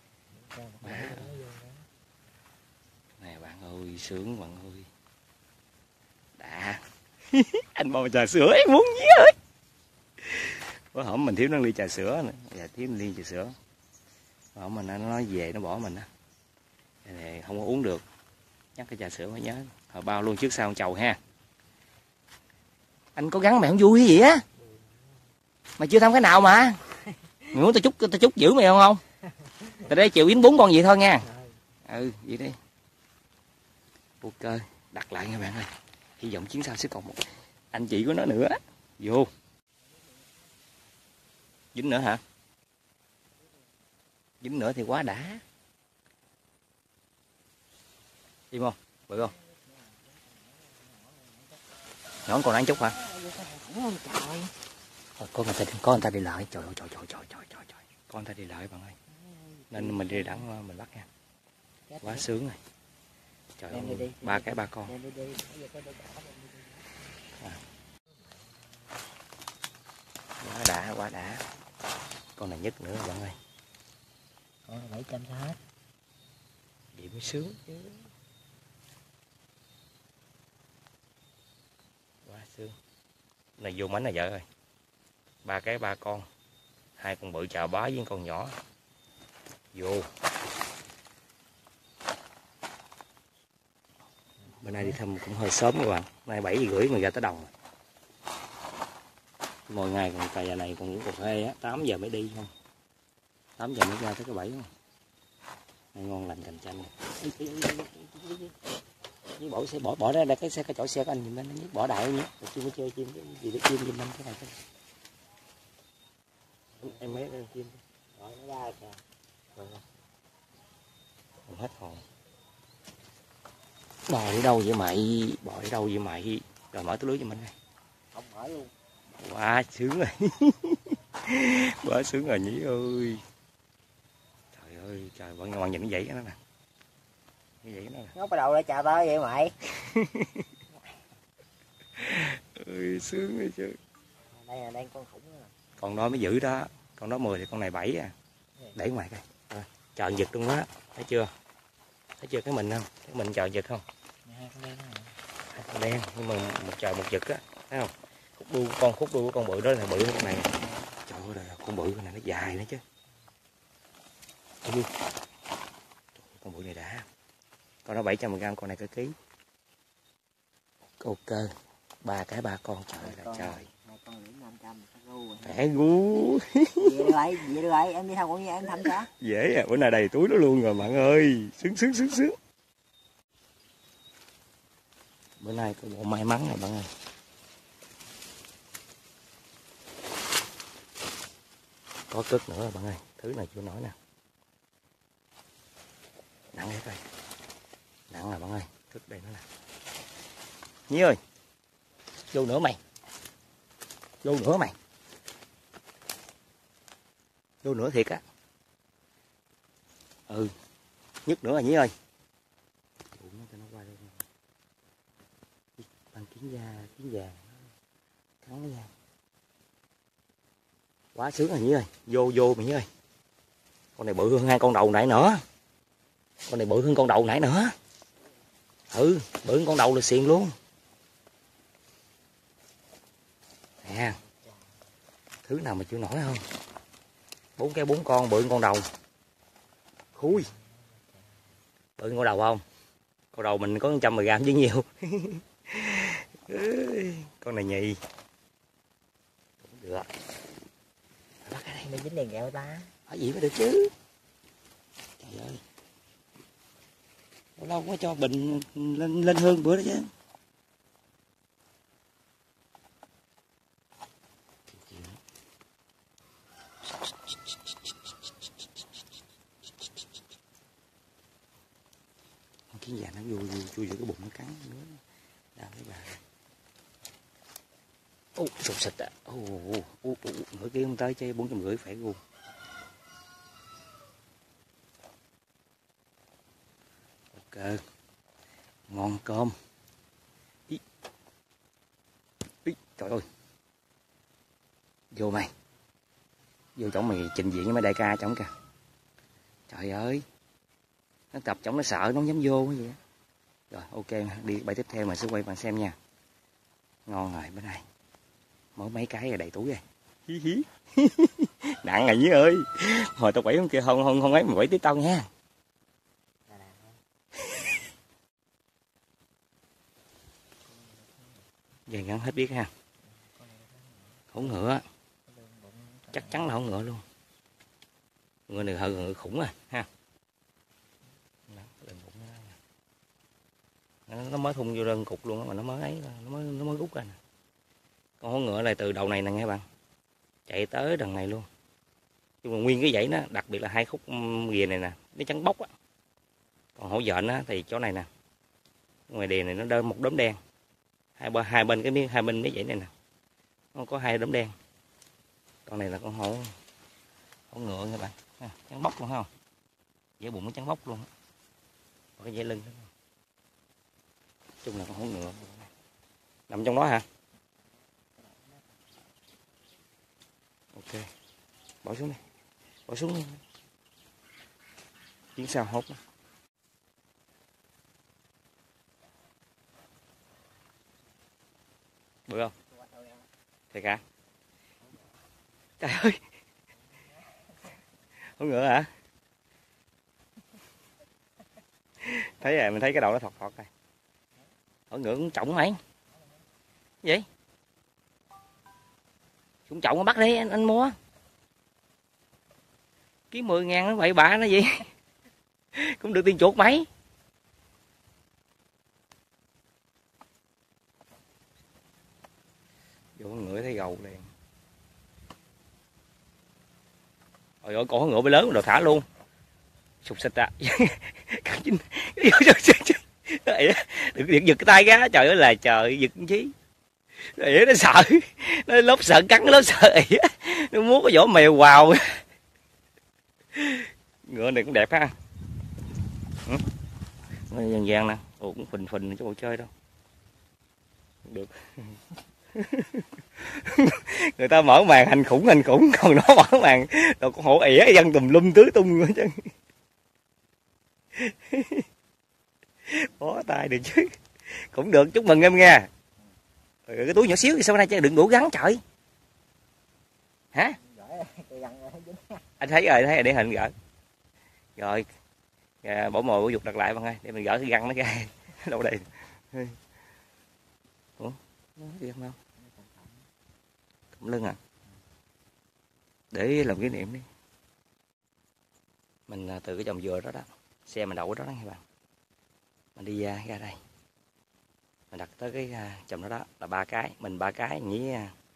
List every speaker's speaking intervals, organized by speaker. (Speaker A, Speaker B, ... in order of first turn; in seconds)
Speaker A: 0.3-1.9, 31.2-31.5, 39.8-40.7, 43.4-43.7, 49.1-51.8, 52.6-54.5, 59.1-60.5, 61.9-62.3, 63.7-66.9, 68.2-68.7, 74.6-75.6, 116.8-117.2, 118.1-119.0, 128.1-128.7, 138.1-139.6, 144.3-145.5, 154.2-155.2, 160.6-160.9, 173.0-175.6, 176.8-179.1, 234.2-234.7, 240.3-241.5, 251.8-252.9, 316.5-317.0, 320.7-321.4, 323.0-324.4, 325.3-326.5, 368.2-368.8, 382.7-383.3, 386.9-387.4, 396.1-396.4, 460.8-462.5, 472.6-473.3
Speaker B: 0.8-1.3, 3.2-4.9, 6.4-9.4, 10.2-13.5, 14.5-16.1, 17.0-18.0, 18.8-21.2, 23.1-24.4, 25.8-26.8, 27.5-29.0, 29.8-31.2, 31.8-32.6, 34.2-39.3, 41.7-42.2, 44.4-45.4, 48.5-49.3, 52.3-53.0, 55.2-59.0, 59.7-61.1, 62.0-62.6, 63.6-64.9, 70.4-71.4, 72.4-73.4, 76.9-77.9, 82.2-82.7, 83.6-84.4, 85.4-86.2, 87.0-88.5, 89.7-90.1, 94.6-97.5, 99.7-102.5, 103.6-104.7, 105.9-108.5, 109.3-114.6, 116.8-117.8, 121.5-122.0, 124.1-127.5, 129.2-133.2, 134.5-136.4, 137.6-138.1, 139.8-140.4, 141.9-143.8, 145.8-148.1, 148.7-151.3, 152.2-153.8, 155.5-160.5, 161.1-162.8, 164.6-164.9, 166.2-167.1, 167.8-169.2, 171.0-173.7, 175.4-177.2, 178.8-182.4, 185.4-186.9, 192.1-193.9, 196.5-197.0, 198.1-199.4, 200.9-201.2, 202.3-202.8, 204.2-204.7, 207.6-208.2, 210.3-210.5, 211.2-211.9, 213.1-214.2, 215.8-217.6, 218.4-218.9, 221.1-222.9, 224.0-225.4, 226.5-227.7, 228.9-230.6, 233.8-234.2, 235.4-236.4, 237.6-238.9, 240.2-240.5, 242.0-242.6, 243.3-248.0, 249.6-250.1, 251.4-251.9, 253.1-253.9, 255.2-255.6, 257.6-260.1, 264.7-265.2, 272.7-275.0, 275.6-276.2, 278.4-282.2, 287.3-287.8, 288.9-289.6, 292.6-293.2, 295.1-295.5, 296.8-298.5, 299.7-300.2, 301.3-303.0, 303.7-305.9, 307.1-307.8, 308.8-315.3, 321.9-322.7, 324.3-324.8, 326.1-327.0, 328.5-329.9, 331.5-332.6, 334.1-337.2, 338.2-339.6, 340.5-341.5, 342.4-345.7, 346.8-348.1, 349.1-350.4, 351.2-352.9, 353.7-354.5, 355.6-356.5, 357.5-359.3, 360.2-361.1, 362.2-362.9, 364.6-365.7, 366.5-367.1, 370.7-371.1, 371.8-372.2, 372.9-373.4, 375.3-376.0, 382.3-382.5, 383.7-384.0, 385.8-386.2, 388.4-388.9, 392.0-393.7, 394.9-395.8, 399.7-401.0, 403.3-404.9, 405.7-406.9, 413.2-414.3, 417.6-419.1, 420.0-426.5, 427.2-432.2, 433.5-435.1, 437.5-439.7, 441.2-442.0, 442.5-449.5, 451.1-451.9, 452.8-455.9, 456.9-458.8, 462.6-463.7, 464.8-465.1, 465.8-469.8, 471.2-472.4, 474.1-474.6, 476.3-477.3, 479.3-481.8, 482.9-483.8, 485.1-488.3